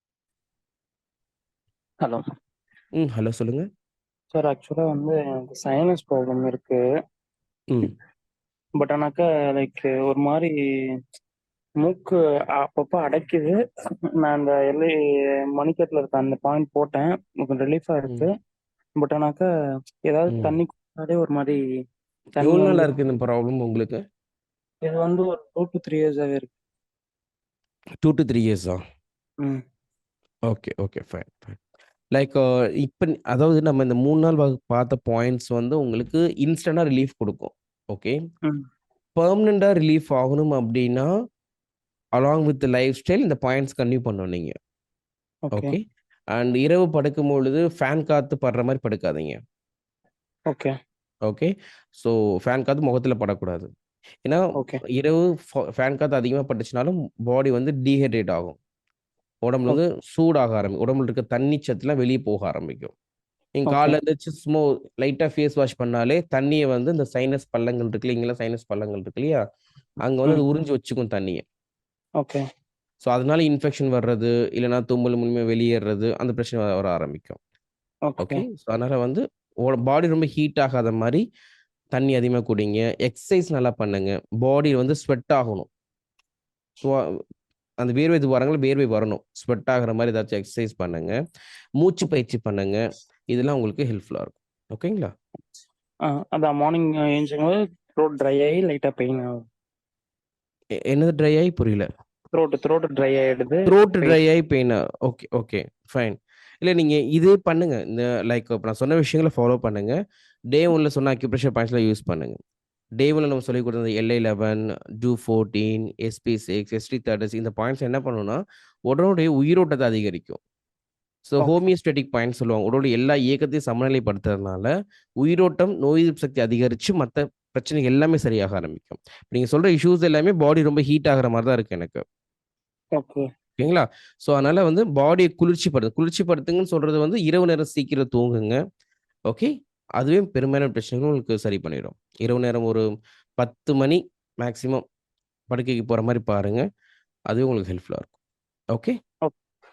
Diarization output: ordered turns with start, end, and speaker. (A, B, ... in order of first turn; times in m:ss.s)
0:03.0-0:03.6 A
0:04.3-0:06.8 B
0:08.8-0:10.5 B
0:11.8-0:13.5 B
0:14.2-0:14.9 B
0:15.5-0:18.3 B
0:19.0-0:19.5 B
0:20.1-0:21.6 B
0:20.3-0:20.6 A
0:22.4-0:22.9 B
0:22.4-0:24.0 A
0:24.8-0:26.5 B
0:28.0-0:28.8 A
0:30.5-0:31.6 A
0:32.1-0:38.1 A
0:39.2-0:41.1 A
0:42.2-0:44.5 A
0:45.5-0:45.7 B
0:45.5-0:45.8 A
0:46.4-0:49.4 A
0:51.2-0:53.7 A
0:54.2-0:58.6 A
0:59.4-1:02.9 A
1:03.6-1:09.4 A
1:03.7-1:03.9 B
1:10.0-1:11.4 A
1:13.0-1:17.4 A
1:18.0-1:18.4 B
1:18.2-1:21.2 A
1:21.9-1:25.7 A
1:26.8-1:27.2 A
1:27.8-1:31.1 A
1:31.8-1:32.8 A
1:33.3-1:35.1 A
1:36.1-1:39.3 B
1:40.9-1:41.9 A
1:42.3-1:44.2 B
1:43.6-1:49.9 A
1:50.5-1:52.4 A
1:53.0-2:00.4 A
2:01.2-2:04.7 A
2:05.2-2:12.0 A
2:12.9-2:13.2 B
2:13.6-2:18.6 A
2:19.3-2:22.8 A
2:23.4-2:24.8 A
2:25.5-2:26.6 A
2:27.3-2:28.1 A